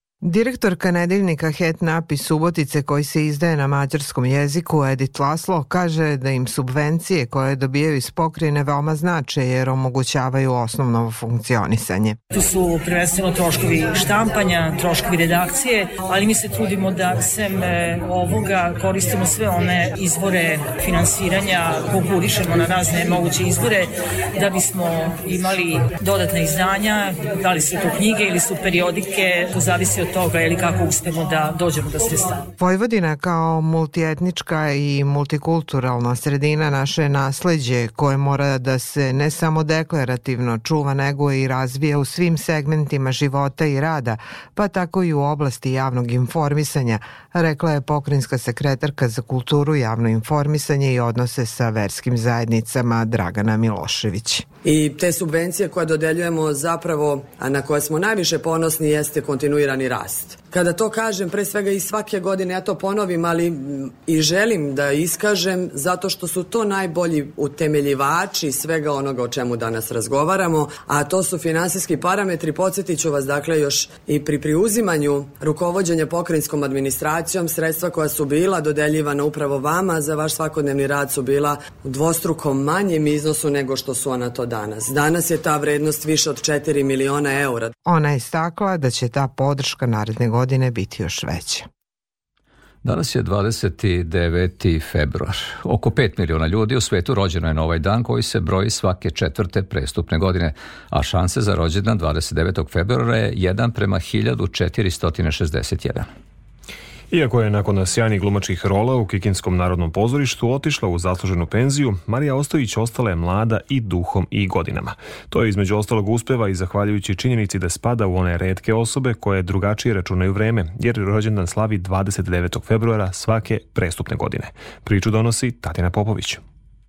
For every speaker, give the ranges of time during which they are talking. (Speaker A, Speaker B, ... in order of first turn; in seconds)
Speaker A: 0.2-12.2, 32.6-54.5, 87.9-91.7
Speaker B: 12.3-32.5
Speaker C: 54.6-87.7
Speaker D: 92.8-106.1
Speaker E: 107.1-126.4